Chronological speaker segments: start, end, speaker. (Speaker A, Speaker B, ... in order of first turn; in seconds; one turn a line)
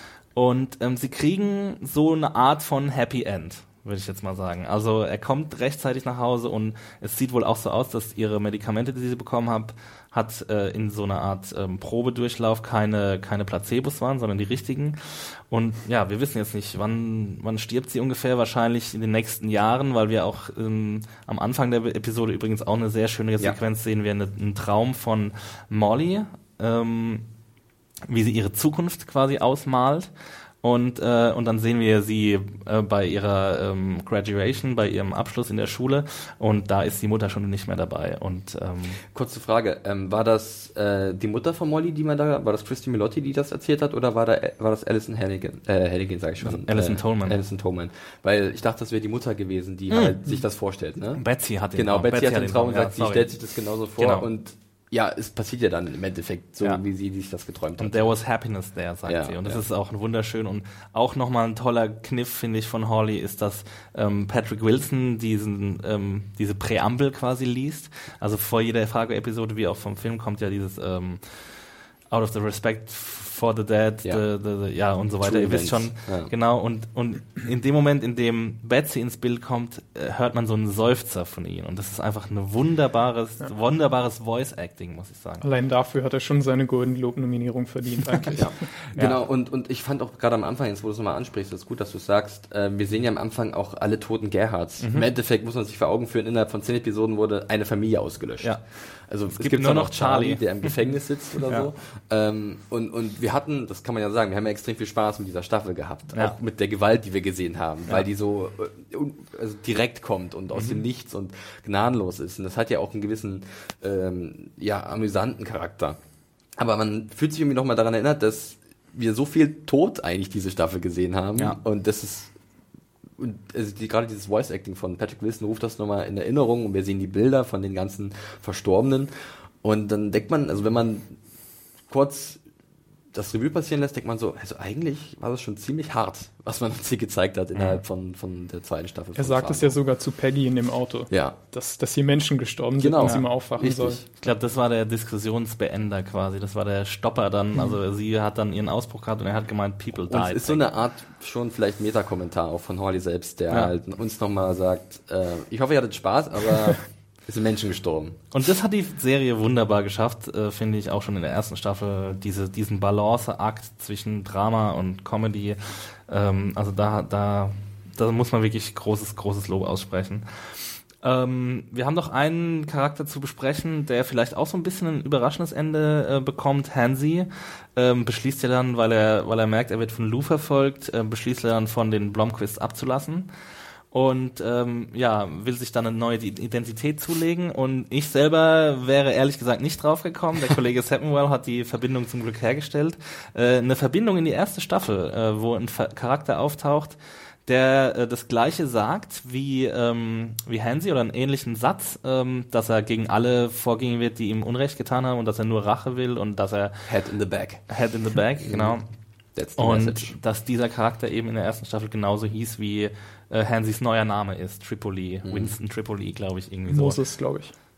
Speaker A: 0.3-27.2
Speaker A: 28.1-30.1
Speaker A: 30.6-39.0
Speaker B: 39.1-58.1
Speaker A: 46.4-47.4
Speaker A: 49.9-50.2
Speaker A: 51.2-53.3
Speaker A: 54.0-54.3
Speaker A: 57.8-71.5
Speaker B: 59.0-59.6
Speaker A: 72.1-85.4
Speaker B: 75.2-76.3
Speaker C: 85.4-88.5
Speaker B: 88.3-98.6
Speaker A: 94.8-95.0
Speaker B: 99.1-116.0
Speaker A: 99.4-100.7
Speaker A: 101.4-101.7
Speaker A: 110.5-110.8
Speaker B: 116.6-122.3
Speaker B: 123.2-129.1
Speaker B: 129.6-131.1
Speaker B: 131.9-132.4
Speaker B: 133.1-139.8
Speaker A: 137.5-137.8
Speaker C: 139.1-144.0
Speaker B: 141.1-141.3
Speaker B: 142.8-144.0
Speaker A: 144.2-150.6
Speaker B: 150.1-158.2
Speaker A: 158.3-170.2
Speaker A: 171.0-183.3
Speaker A: 183.9-206.7
Speaker B: 206.9-207.6
Speaker A: 207.7-208.9
Speaker B: 208.4-208.8
Speaker B: 209.3-210.2
Speaker A: 209.6-217.0
Speaker B: 215.2-215.5
Speaker C: 216.7-217.5